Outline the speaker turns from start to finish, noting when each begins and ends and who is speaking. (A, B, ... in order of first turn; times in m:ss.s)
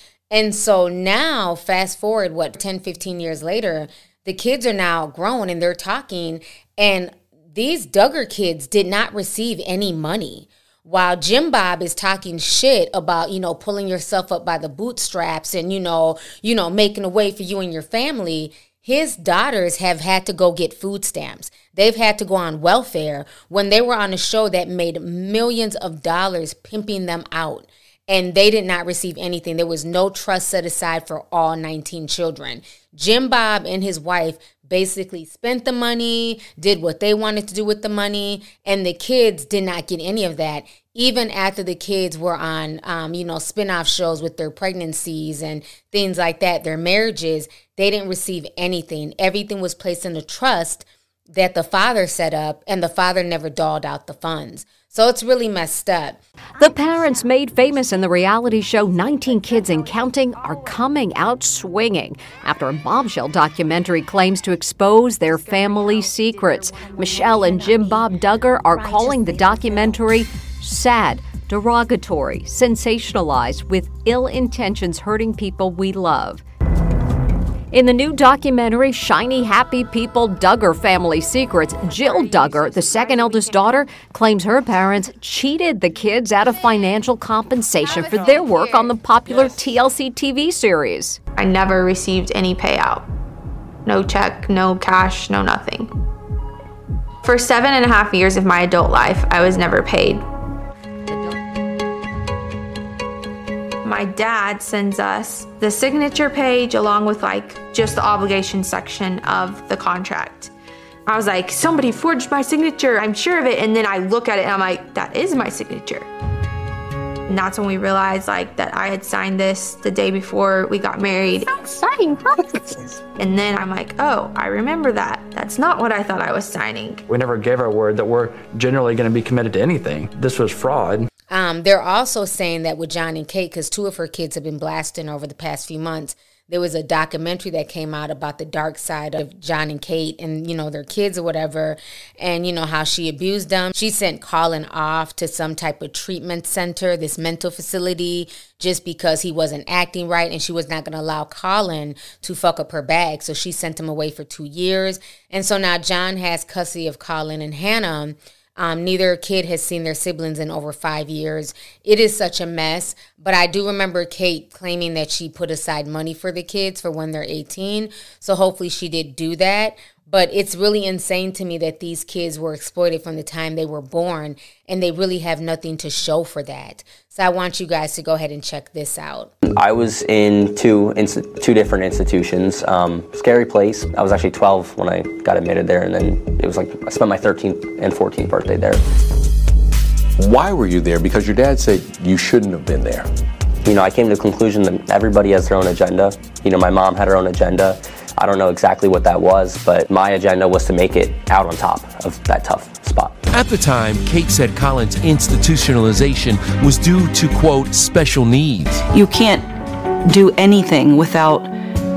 0:00.3-0:56.2 A
0:56.6-1:16.4 B
1:17.7-1:31.2 B
1:31.3-1:33.1 C
1:33.8-1:35.9 C
1:37.2-1:40.2 C
1:43.8-1:50.5 C
1:51.1-1:56.1 C
1:57.3-2:01.6 C
2:03.2-2:07.0 C
2:07.1-2:08.8 D
2:10.1-2:11.0 D
2:11.3-2:59.3 A
2:59.4-3:08.8 E
3:10.2-3:13.1 F
3:13.6-3:23.2 E
3:23.3-3:28.8 G
3:28.9-3:29.5 H
3:30.0-3:31.5 H